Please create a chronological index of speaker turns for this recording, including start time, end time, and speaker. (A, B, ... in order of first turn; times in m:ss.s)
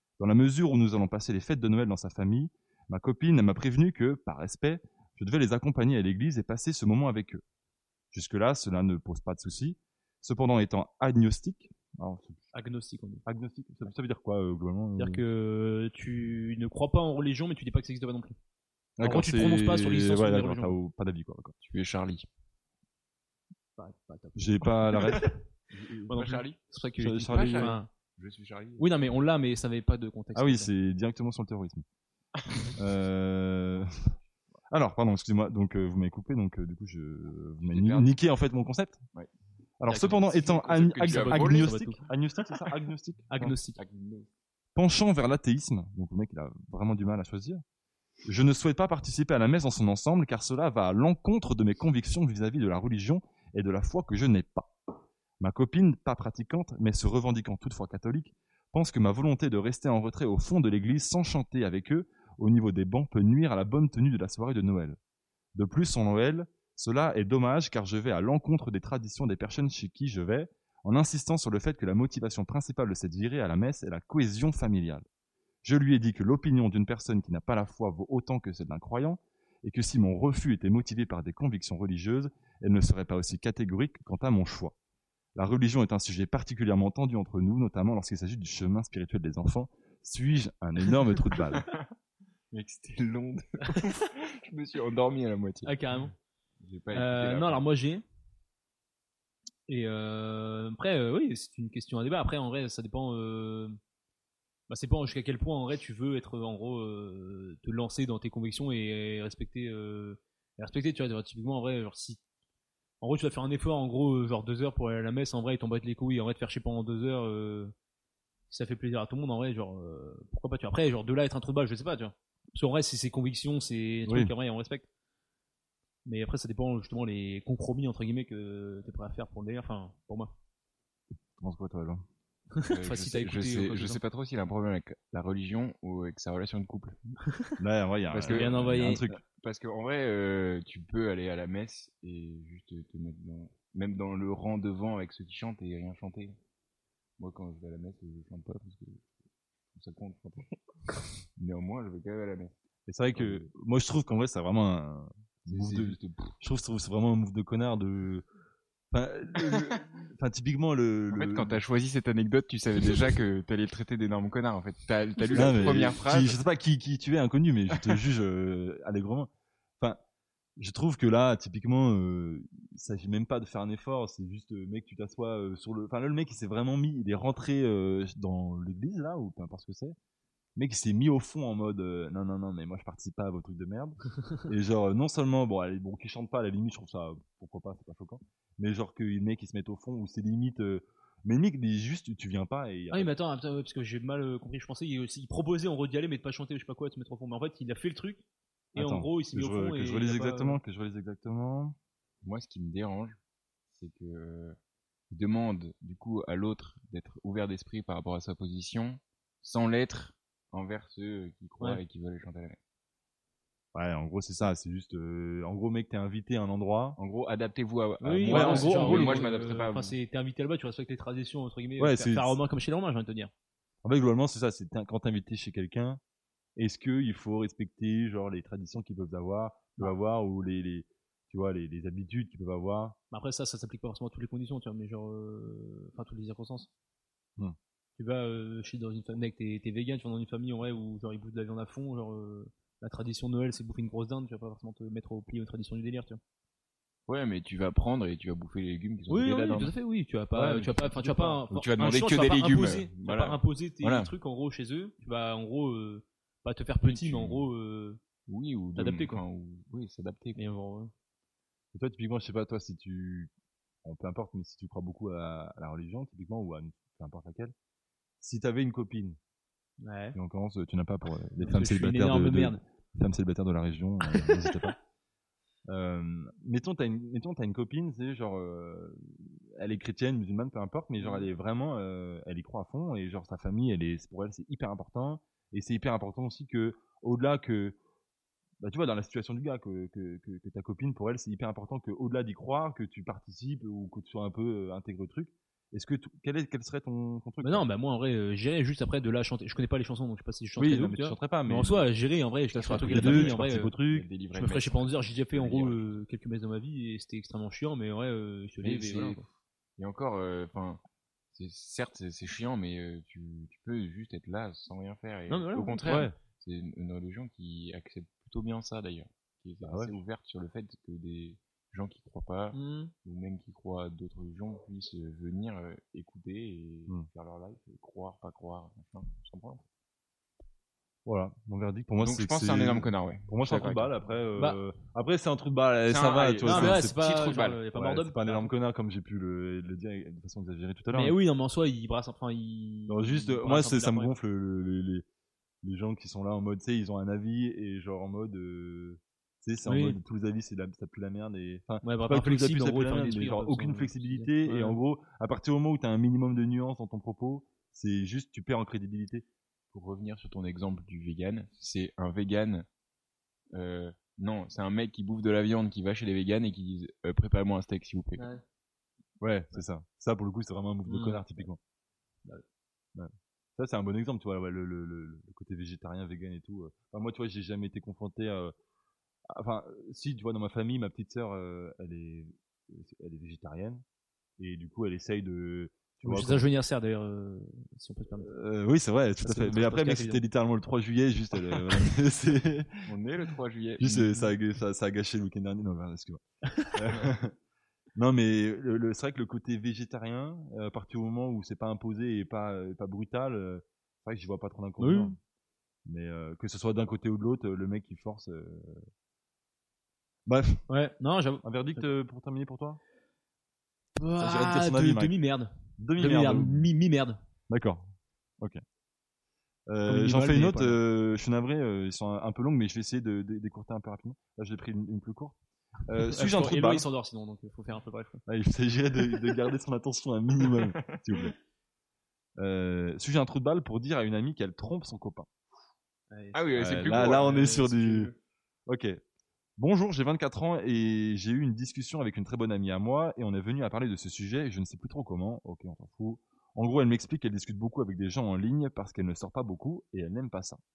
0:00.2-0:07.4 A
0:08.1-0:12.4 A
0:12.5-0:13.2 B
0:13.2-0:15.2 A
0:15.0-0:18.3 B
0:19.0-0:21.5 A
0:19.0-0:20.8 B
0:21.6-0:22.3 C
0:23.8-0:25.3 B
0:24.4-0:25.3 A
0:26.1-0:26.6 C
0:26.1-0:27.9 B
0:27.0-0:27.8 A
0:27.3-0:28.9 C
0:28.8-0:30.7 B
0:30.3-0:31.8 A
0:32.7-0:34.1 A
0:34.7-0:39.0 A
0:37.6-0:38.1 C
0:39.8-0:43.5 A
0:39.9-0:42.0 B
0:40.4-0:42.0 C
0:43.3-0:43.8 B
0:43.8-0:44.3 C
0:44.7-0:47.6 A
0:48.2-0:54.7 A
0:55.4-1:05.0 A
1:05.5-1:15.0 A
1:15.6-1:24.7 A
1:25.4-1:31.7 A
1:32.5-1:35.8 C
1:35.6-1:36.1 B
1:36.6-1:37.6 C
1:36.9-1:38.0 B
1:39.7-1:43.8 B
1:44.7-1:52.2 B
1:53.0-1:57.7 B
1:58.5-2:04.8 B
2:04.1-2:04.3 A
2:06.0-2:10.3 B
2:11.4-2:12.0 A
2:12.6-2:14.0 B
2:12.7-2:17.0 C
2:17.6-2:19.2 A
2:18.1-2:26.4 C
2:18.3-2:19.0 B
2:27.2-2:29.1 C
2:29.7-2:30.5 C
2:31.4-2:32.5 C
2:32.9-2:38.2 A
2:33.1-2:33.5 C
2:35.5-2:36.4 C
2:38.9-2:41.6 A
2:41.1-2:46.4 C
2:45.3-2:50.0 A
2:50.6-3:00.0 A
3:00.6-3:13.1 A
3:12.9-3:20.6 B
3:18.7-3:21.8 A
3:22.2-3:24.6 C
3:25.1-3:32.6 C
3:33.7-3:37.0 A
3:37.0-3:39.9 C
3:38.0-3:43.3 B
3:38.3-3:39.3 A
3:41.8-3:42.4 A
3:43.8-3:46.0 A
3:46.6-3:53.0 A
3:53.1-3:56.7 B
3:58.0-4:06.2 B
4:07.1-4:09.7 C
4:09.1-4:18.0 B
4:10.4-4:11.3 A
4:10.4-4:14.1 C
4:16.8-4:17.4 C
4:18.3-4:20.4 C
4:18.8-4:19.2 B
4:20.4-4:20.9 B
4:21.7-4:23.3 A
4:23.8-4:27.5 A
4:28.2-4:29.2 A
4:29.8-4:30.2 B
4:30.1-4:34.8 A
4:31.4-4:32.6 B
4:35.7-4:47.8 A
4:41.0-4:41.3 B
4:48.6-4:57.6 A
4:57.4-5:03.7 B
5:00.6-5:01.8 A
5:02.5-5:06.0 C
5:02.8-5:04.1 A
5:04.3-5:09.2 B
5:08.6-5:10.8 C
5:11.3-5:29.6 C
5:15.3-5:16.1 B
5:15.8-5:16.1 A
5:19.6-5:19.9 A
5:22.5-5:22.9 B
5:31.0-5:37.0 A
5:32.0-5:33.9 C
5:35.8-5:37.6 C
5:36.4-5:38.5 B
5:37.7-5:41.2 A
5:40.9-5:44.1 B
5:42.9-5:45.0 A
5:45.6-5:59.2 A
5:49.6-5:50.0 B
5:51.8-5:54.8 B
5:59.7-6:02.6 C
6:03.5-6:08.2 C
6:08.2-6:08.4 B
6:09.2-6:11.6 A
6:10.8-6:11.4 B
6:12.9-6:18.5 A
6:19.3-6:23.8 A
6:24.4-6:26.4 A
6:26.0-6:28.3 B
6:28.2-6:32.9 A
6:29.2-6:30.2 B
6:32.8-6:34.2 C
6:33.8-6:36.2 A
6:36.5-6:37.0 B
6:36.7-6:37.3 A
6:38.0-6:45.2 A
6:44.8-6:45.1 B
6:45.8-6:48.8 A
6:50.2-6:50.6 A
6:50.7-6:51.8 B
6:51.4-6:52.8 A
6:54.0-6:57.2 B
6:54.2-6:55.1 A
6:55.8-6:56.7 A
6:57.5-6:57.9 A
6:59.7-7:06.8 A
6:59.8-7:00.8 B
7:06.1-7:08.2 B
7:08.3-7:11.4 A
7:10.4-7:11.2 C
7:12.4-7:15.3 A
7:16.1-7:18.2 B
7:16.3-7:17.3 C
7:16.6-7:18.1 A
7:18.7-7:19.0 A
7:19.6-7:30.6 A